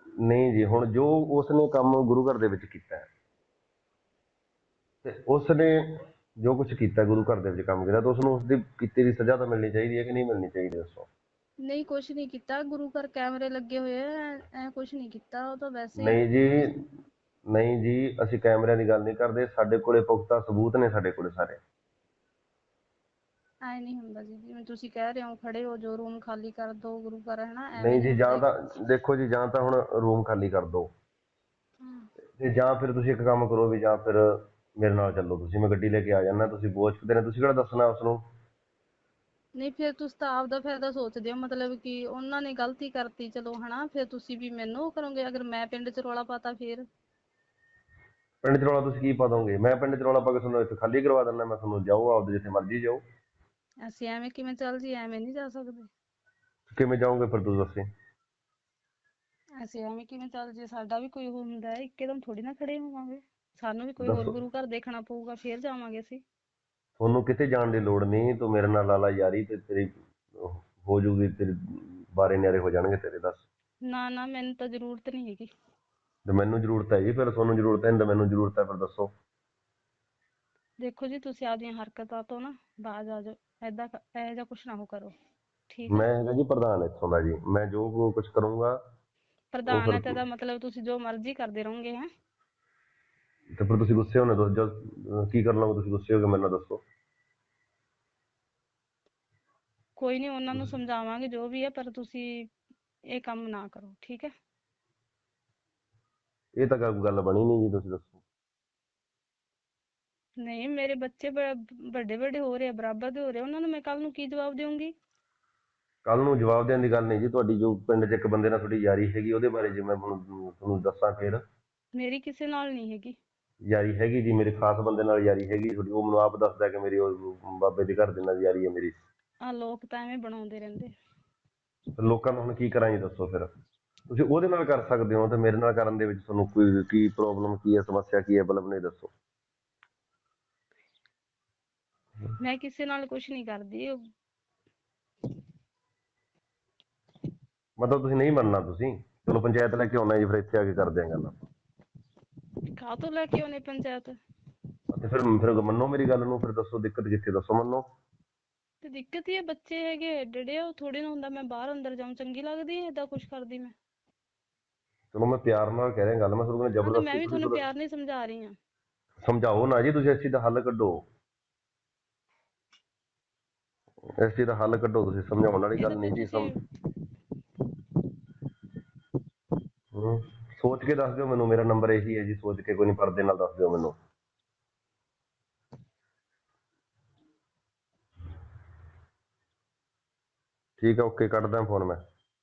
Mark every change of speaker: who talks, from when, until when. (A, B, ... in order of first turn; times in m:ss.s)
0:00.2-0:03.0 A
0:05.0-0:11.1 A
0:11.6-0:16.7 B
0:16.0-0:16.8 A
0:17.5-0:21.6 A
0:23.6-0:28.5 B
0:27.8-0:30.9 A
0:31.8-0:32.1 B
0:32.4-0:38.2 A
0:39.6-0:46.8 B
0:48.4-0:53.0 A
0:53.8-0:55.9 B
0:56.7-0:57.8 A
0:59.6-1:06.2 B
1:04.0-1:04.3 A
1:07.0-1:13.4 A
1:13.9-1:15.5 B
1:16.2-1:19.1 A
1:20.8-1:25.1 B
1:25.7-1:26.0 B
1:25.9-1:28.8 A
1:29.5-1:32.1 B
1:29.7-1:30.2 A
1:33.6-1:36.8 A
1:40.0-1:42.4 B
1:43.1-1:44.3 B
1:46.6-1:48.2 A
1:50.4-1:54.9 B
1:56.0-2:01.4 A
2:01.9-2:03.2 B
2:03.7-2:09.0 A
2:09.4-2:10.9 B
2:12.0-2:13.5 A
2:14.1-2:19.1 A
2:22.4-2:24.0 B
2:27.8-2:31.4 A
2:32.8-2:34.2 B
2:34.9-2:37.8 A
2:38.8-2:43.7 B
2:45.1-2:47.6 A
2:46.8-2:48.5 B
2:49.2-2:51.0 A
2:54.2-2:56.5 A
2:55.8-2:56.6 B
2:59.9-3:04.0 A
3:10.8-3:12.0 A